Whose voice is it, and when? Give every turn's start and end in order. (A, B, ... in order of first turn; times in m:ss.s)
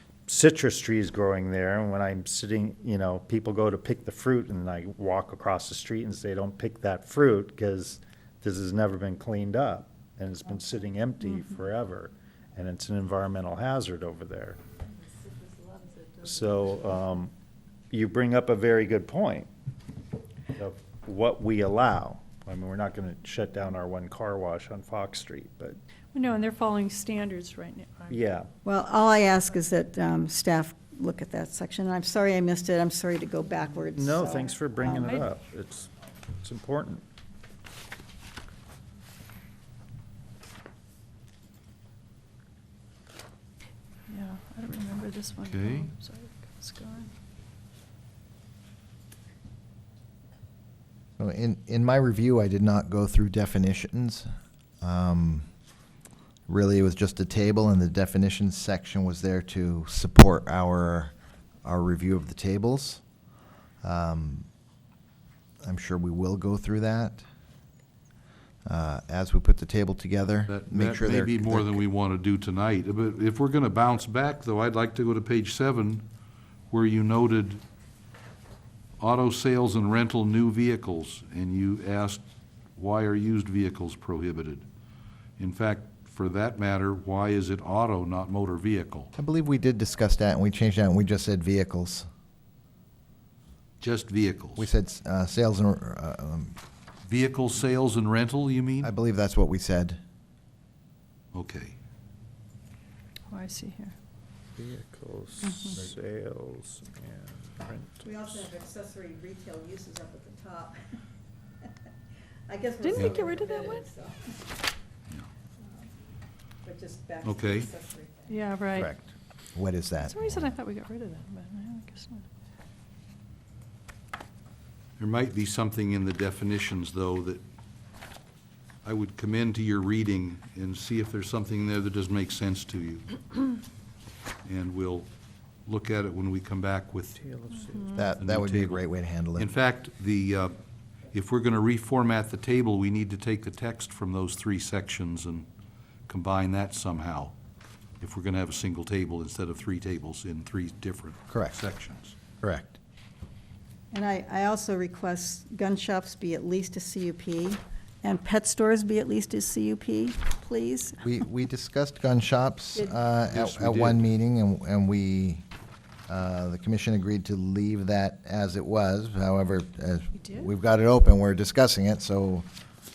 0:00.3-0:14.6 A
0:16.2-0:17.3 A
0:17.9-0:19.5 A
0:20.6-0:25.8 A
0:26.1-0:28.2 B
0:28.1-0:28.5 A
0:28.6-0:35.3 C
0:34.0-0:37.0 A
0:44.1-0:47.1 B
0:45.5-0:45.9 D
0:51.2-0:54.3 E
0:54.8-0:55.5 E
0:56.5-1:01.1 E
1:01.6-1:03.0 E
1:03.8-1:04.5 E
1:05.6-1:07.2 E
1:08.6-1:11.8 E
1:10.5-1:16.1 D
1:16.7-1:17.6 D
1:19.0-1:22.2 D
1:22.8-1:24.6 D
1:25.4-1:29.1 D
1:29.2-1:32.1 E
1:33.8-1:34.7 D
1:34.6-1:36.6 E
1:37.1-1:38.9 D
1:38.8-1:40.0 E
1:41.3-1:41.8 D
1:43.3-1:44.0 B
1:44.6-1:48.5 A
1:45.4-1:45.8 B
1:48.0-1:50.8 C
1:52.5-1:54.4 C
1:52.8-1:53.9 B
1:56.6-1:58.6 C
1:57.2-1:57.7 D
1:58.3-1:58.9 B
1:58.7-2:00.5 E
2:00.0-2:02.2 B
2:05.0-2:07.4 D
2:08.8-2:13.2 D
2:14.4-2:15.1 D
2:15.7-2:17.3 D
2:17.3-2:17.9 A
2:17.9-2:19.5 E
2:18.2-2:18.8 D
2:19.4-2:20.5 D
2:21.1-2:25.5 D
2:26.1-2:27.3 D
2:28.0-2:32.2 D
2:31.3-2:31.6 E
2:32.4-2:32.8 E
2:33.9-2:41.0 C
2:41.0-2:45.4 E
2:43.3-2:44.1 D
2:46.1-2:52.5 E